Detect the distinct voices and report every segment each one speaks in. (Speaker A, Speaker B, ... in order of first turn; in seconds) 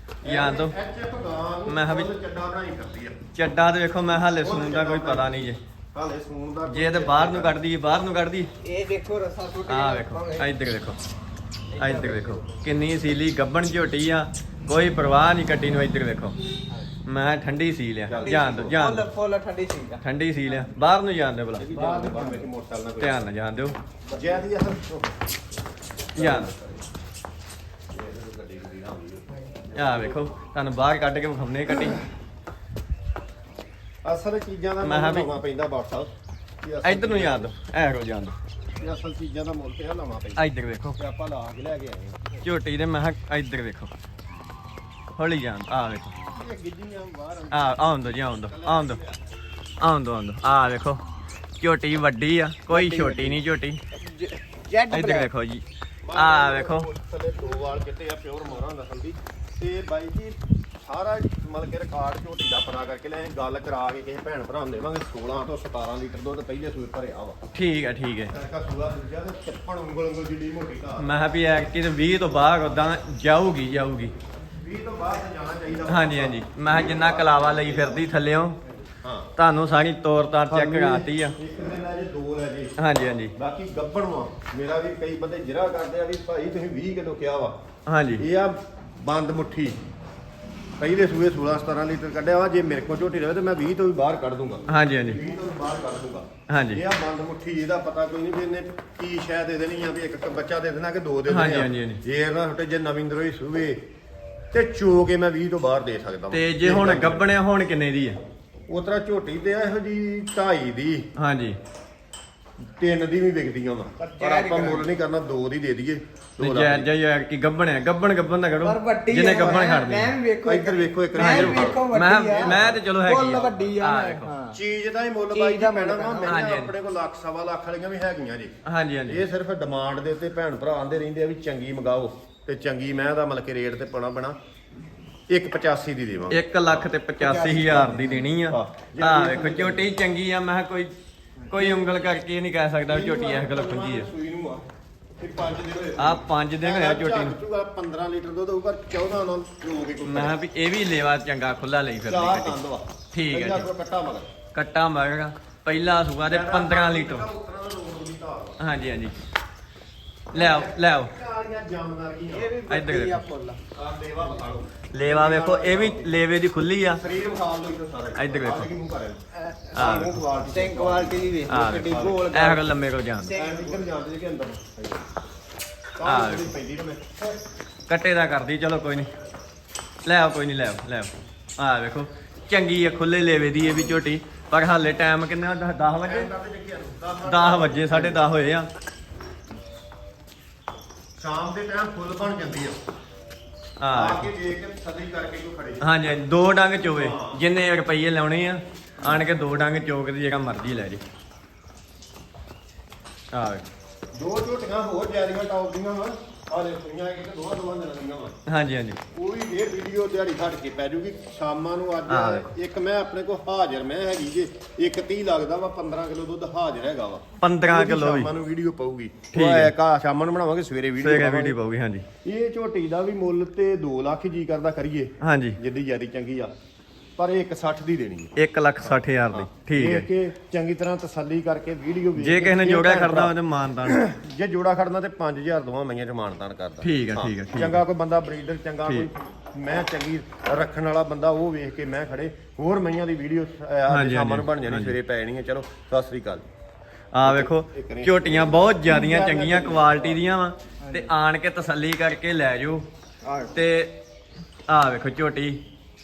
Speaker A: 0.2-3.2, 4.4-7.6, 18.1-18.8, 21.6-23.2, 24.1-25.2, 26.1-26.8, 27.9-30.3, 34.0-37.5, 38.8-40.4, 41.0-42.4, 46.3-49.2, 56.0-67.4, 68.3-71.1, 74.5-78.1, 79.0-79.3, 80.5-82.7, 83.4-87.6, 88.2-89.8, 90.8-103.8, 104.5-107.3, 108.7-111.1, 112.8-116.9, 120.4-121.9, 122.4-122.8, 124.5-128.5, 129.1-134.4, 135.3-136.9, 137.8-139.9, 141.6-141.9, 142.9-144.7, 145.2-150.4, 152.0-154.3, 156.3-158.6, 160.3-162.6, 163.7-166.2, 167.0-169.2, 169.7-172.3, 173.3-175.1, 176.0-177.4, 186.1-188.3, 191.2-192.8, 193.9-195.8, 196.9-197.4, 204.1-208.3, 209.1-221.6, 222.2-226.5, 227.2-228.3, 228.9-246.4, 247.2-250.2
Speaker B: 0.2-0.7, 1.7-2.1, 3.4-5.6, 6.7-8.5, 9.7-11.0, 11.8-16.4, 17.1-19.1, 20.0-21.7, 23.0-23.8, 26.2-26.5, 29.7-32.0, 34.8-35.3, 36.8-38.4, 40.4-41.0, 42.4-43.9, 45.1-46.2, 47.5-49.0, 49.8-51.0, 51.6-53.8, 54.9-56.9, 67.5-68.3, 71.0-74.1, 75.9-78.6, 79.4-81.3, 82.8-83.3, 87.9-88.2, 94.7-95.2, 96.5-96.8, 101.3-102.0, 106.3-108.2, 111.2-111.6, 116.4-120.2, 121.2-124.3, 126.2-126.7, 128.7-129.2, 136.3-140.9, 141.5-144.1, 146.0-147.4, 150.1-152.6, 153.1-153.7, 154.5-157.3, 158.6-159.2, 160.3-161.1, 162.7-163.2, 164.9-167.0, 168.2-168.7, 169.7-170.2, 171.5-173.3, 176.0-176.5, 177.9-179.1, 180.1-186.3, 187.2-188.7, 193.8-194.3, 195.8-201.0, 203.3-203.7, 208.5-209.0, 212.1-212.5, 217.4-218.3, 219.3-219.7, 221.0-222.1, 225.2-225.6, 228.4-230.1, 232.2-234.0, 236.8-237.8, 243.9-245.0, 247.1-252.9, 253.5-254.0, 254.7-255.6
Speaker C: 8.6-10.5, 11.7-12.6, 18.1-20.0, 21.7-22.5, 52.7-53.4, 53.9-55.3, 114.0-114.9, 118.6-124.6, 125.3-126.4, 137.2-138.3, 162.3-163.6, 169.4-169.8, 170.5-172.7, 173.2-173.8, 250.8-251.1, 253.2-253.5